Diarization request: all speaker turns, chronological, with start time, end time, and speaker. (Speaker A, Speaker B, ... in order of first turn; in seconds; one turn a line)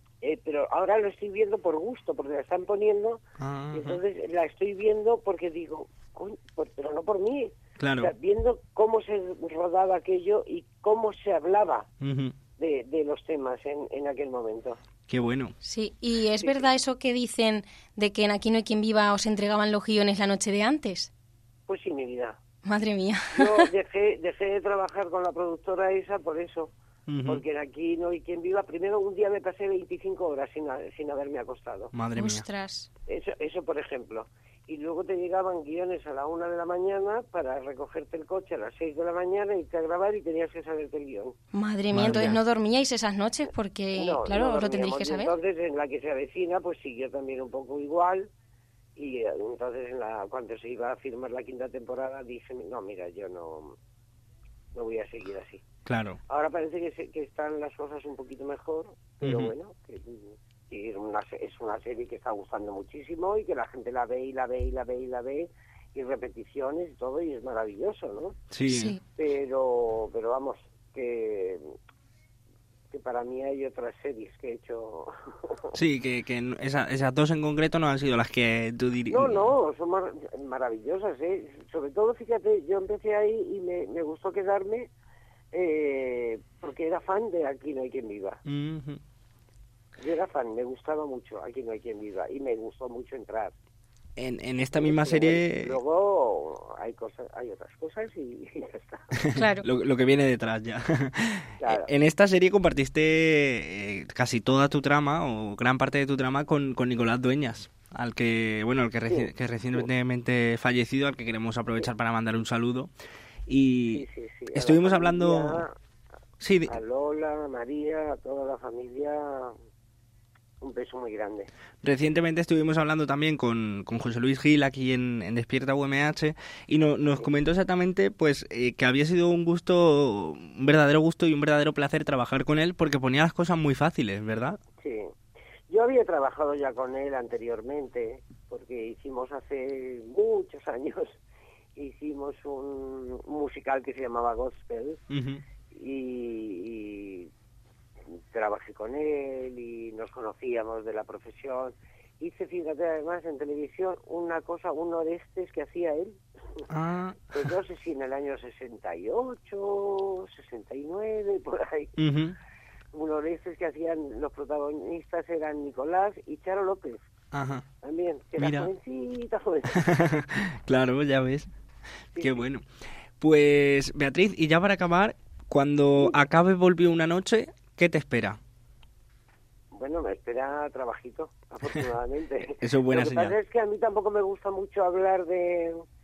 Speaker A: 0.2-3.2
Speaker B: 3.4-4.0
Speaker A: 3.7-11.9
Speaker B: 7.8-8.1
Speaker B: 12.0-12.4
Speaker A: 12.6-14.8
Speaker B: 15.1-15.6
Speaker C: 15.6-21.1
Speaker A: 21.7-22.4
Speaker C: 22.6-23.6
Speaker A: 23.4-26.7
Speaker B: 27.1-27.4
Speaker A: 27.3-31.9
Speaker B: 31.9-32.5
Speaker C: 32.1-32.9
Speaker A: 33.1-41.4
Speaker C: 41.5-45.3
Speaker B: 41.9-42.4
Speaker A: 44.0-48.3
Speaker A: 49.0-53.8
Speaker A: 54.7-55.6
Speaker B: 55.9-56.2
Speaker A: 56.3-68.4
Speaker B: 59.2-59.5
Speaker B: 68.5-69.0
Speaker C: 68.7-69.0
Speaker A: 69.2-71.6
Speaker A: 72.9-75.8
Speaker B: 75.8-79.5
Speaker A: 79.1-84.9
Speaker A: 85.5-88.4
Speaker B: 88.5-89.0
Speaker A: 90.0-93.5
Speaker B: 94.2-95.8
Speaker A: 94.8-99.1
Speaker B: 99.3-112.9
Speaker C: 99.3-99.7
Speaker A: 101.6-101.9
Speaker A: 109.1-109.8
Speaker B: 113.5-115.7
Speaker A: 113.9-115.8
Speaker B: 116.4-116.8
Speaker A: 116.7-119.5
Speaker A: 120.6-121.5
Speaker B: 121.8-134.6
Speaker A: 134.8-135.1
Speaker A: 135.7-141.2
Speaker A: 141.8-145.0
Speaker B: 145.1-145.4
Speaker A: 145.7-147.3
Speaker A: 148.3-156.6
Speaker B: 156.7-157.5
Speaker A: 157.3-161.9
Speaker B: 162.0-162.4
Speaker A: 162.9-167.0
Speaker B: 167.3-167.7
Speaker A: 167.8-169.7
Speaker B: 168.4-168.7
Speaker B: 169.7-171.5
Speaker A: 172.2-172.4
Speaker B: 172.2-172.7
Speaker B: 173.2-178.4
Speaker A: 179.7-185.8
Speaker B: 182.6-183.4